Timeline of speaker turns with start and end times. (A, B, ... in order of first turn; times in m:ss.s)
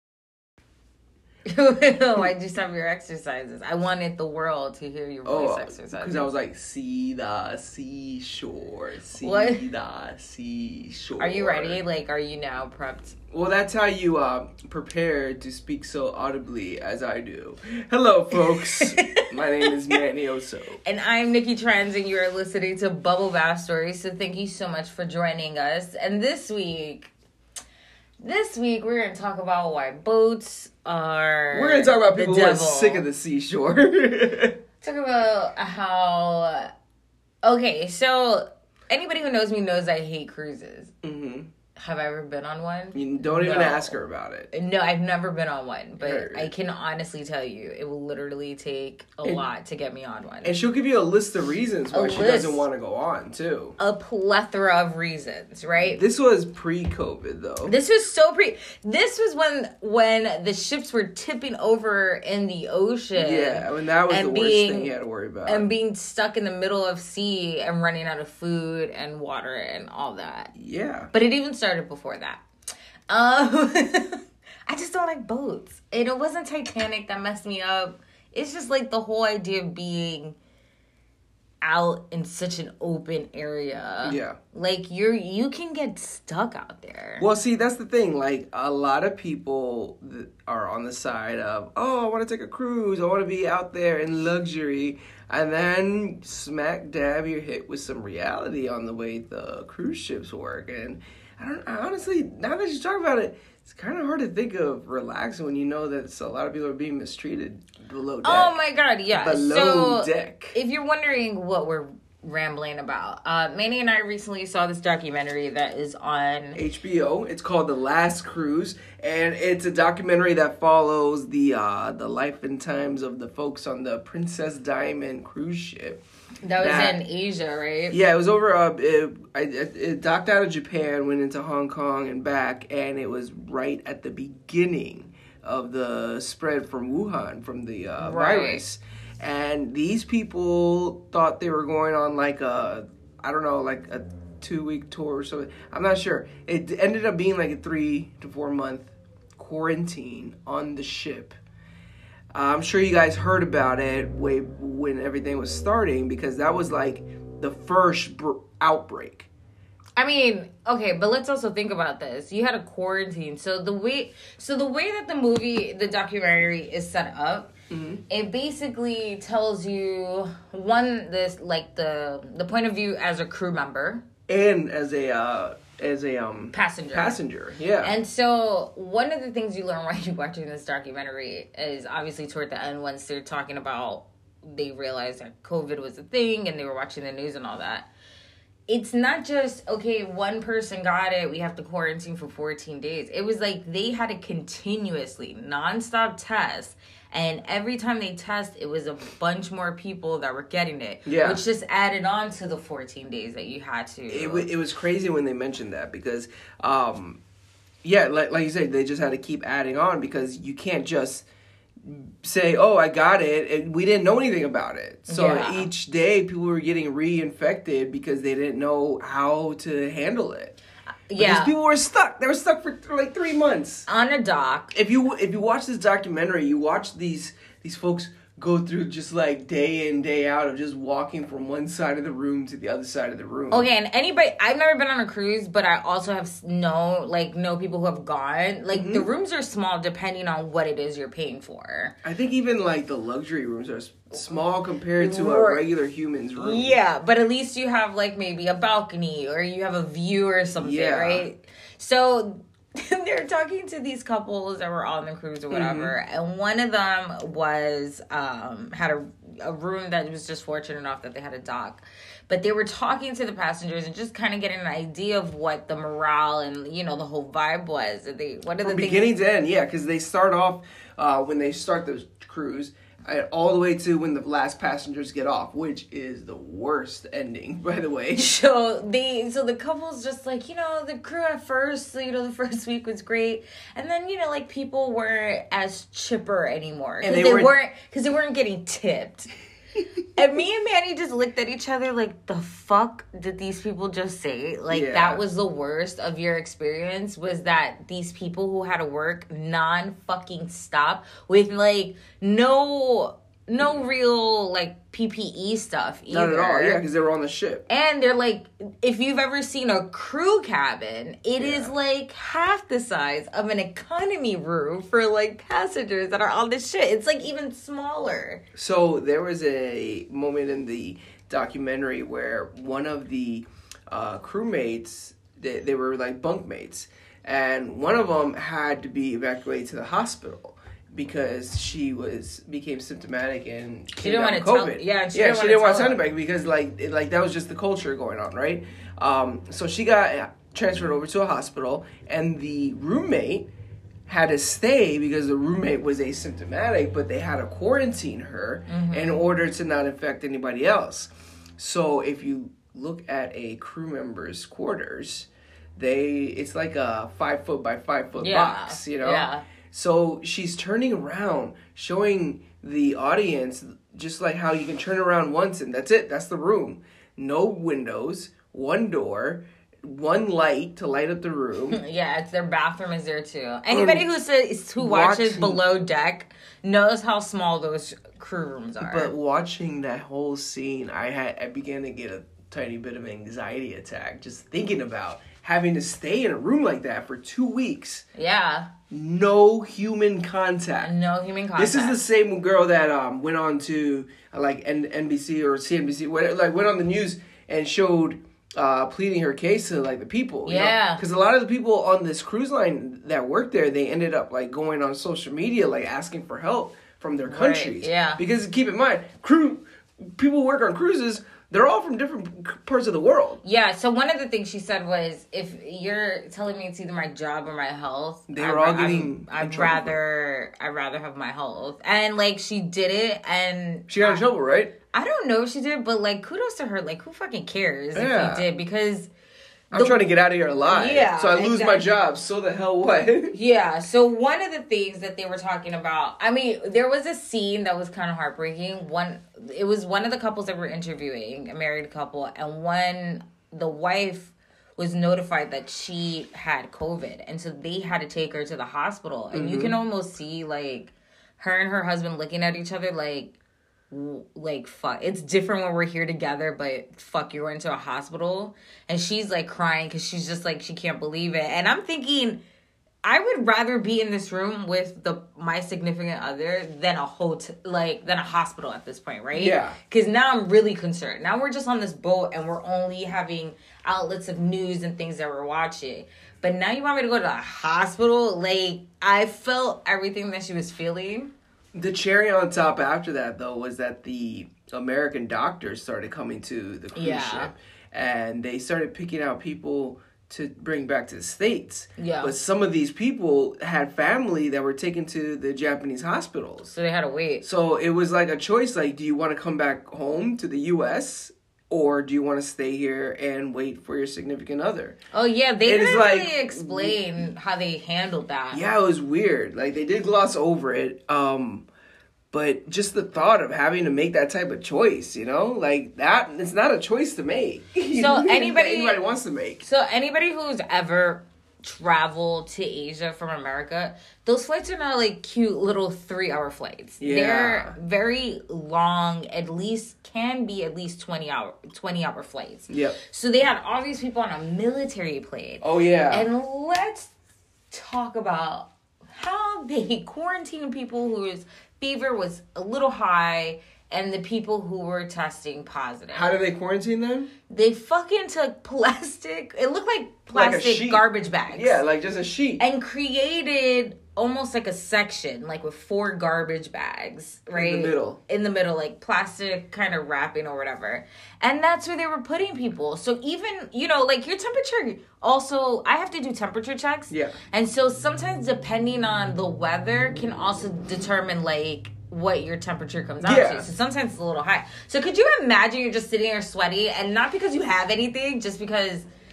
0:01.5-0:06.3 A
0:05.2-0:11.8 B
0:09.2-0:09.6 A
0:11.2-0:13.2 A
0:13.3-0:20.8 B
0:18.3-0:19.7 A
0:20.8-0:27.1 A
0:28.2-0:33.0 A
0:31.5-0:34.6 B
0:34.8-0:36.7 A
0:37.4-0:40.9 A
0:41.0-0:41.5 B
0:41.8-0:44.0 A
0:42.9-0:44.5 B
0:44.5-0:50.6 A
0:46.0-0:46.5 B
0:50.4-0:53.8 B
0:51.9-0:52.6 A
0:53.8-0:56.0 A
0:55.8-0:57.8 B
0:57.6-1:04.9 A
1:03.1-1:05.7 B
1:05.4-1:10.5 A
1:10.5-1:11.1 B
1:11.1-1:12.4 A
1:13.1-1:20.4 A
1:21.6-1:27.3 A
1:24.0-1:24.4 B
1:27.2-1:48.6 B
1:48.2-1:56.6 A
1:49.1-1:50.6 B
1:56.5-2:06.0 B
2:06.4-2:08.0 A
2:06.6-2:07.0 B
2:07.9-2:31.4 B
2:18.0-2:18.6 A
2:32.3-2:39.3 B
2:40.0-2:47.5 A
2:47.7-2:48.0 B
2:48.1-2:54.0 A
2:54.3-2:57.9 B
2:56.5-2:57.2 A
2:57.8-3:07.9 A
3:08.7-3:24.5 A
3:21.0-3:21.4 B
3:24.1-3:27.2 B
3:27.8-3:31.3 B
3:31.8-3:40.6 B
3:35.1-3:35.7 A
3:41.1-3:41.5 A
3:41.2-3:43.8 B
3:43.9-3:44.7 A
3:44.7-3:53.7 B
3:53.5-4:01.9 A
3:58.7-3:59.1 B
4:02.0-4:06.8 B
4:05.0-4:05.6 A
4:06.4-4:29.1 A
4:10.6-4:11.3 B
4:15.5-4:15.9 B
4:28.6-4:38.3 B
4:38.1-4:49.3 A
4:47.0-4:47.5 B
4:50.1-5:06.8 A
4:54.7-4:55.2 B
5:06.1-5:07.6 B
5:07.7-5:18.4 A
5:11.4-5:11.7 B
5:18.5-5:43.5 B
5:34.0-5:36.0 A
5:44.1-6:11.8 B
5:48.7-5:49.2 A
5:58.2-5:59.4 A
6:11.7-6:19.1 A
6:13.7-6:14.1 B
6:14.8-6:15.6 B
6:18.8-6:28.0 B
6:28.1-6:28.7 A
6:28.9-6:30.9 B
6:30.8-6:32.0 A
6:31.6-6:53.4 B
6:40.4-6:41.0 A
6:47.3-6:48.2 A
6:53.4-7:04.3 A
6:58.3-7:00.0 B
7:03.9-7:04.7 B
7:04.9-7:09.1 A
7:07.9-7:08.5 B
7:09.7-7:10.0 A
7:09.7-7:13.4 B
7:10.6-7:11.9 A
7:13.3-7:33.3 A
7:29.3-7:29.8 B
7:33.9-7:42.4 A
7:43.0-8:01.3 A
7:49.3-7:49.8 B
8:01.7-8:16.7 B
8:06.9-8:07.5 A
8:12.0-8:12.3 A
8:16.7-8:17.4 A
8:17.4-8:25.0 B
8:25.1-8:28.6 A
8:25.6-8:27.2 B
8:28.5-8:31.7 B
8:32.3-8:39.6 B
8:37.9-8:39.0 A
8:39.6-8:57.1 A
8:47.0-8:47.8 B
8:52.7-8:53.0 B
8:55.6-8:56.3 B
8:57.7-9:06.4 A
9:06.1-9:07.3 B
9:07.5-9:11.8 A
9:10.3-9:12.6 B
9:12.6-9:39.1 A
9:17.5-9:18.2 B
9:27.1-9:27.3 B
9:33.2-9:33.7 B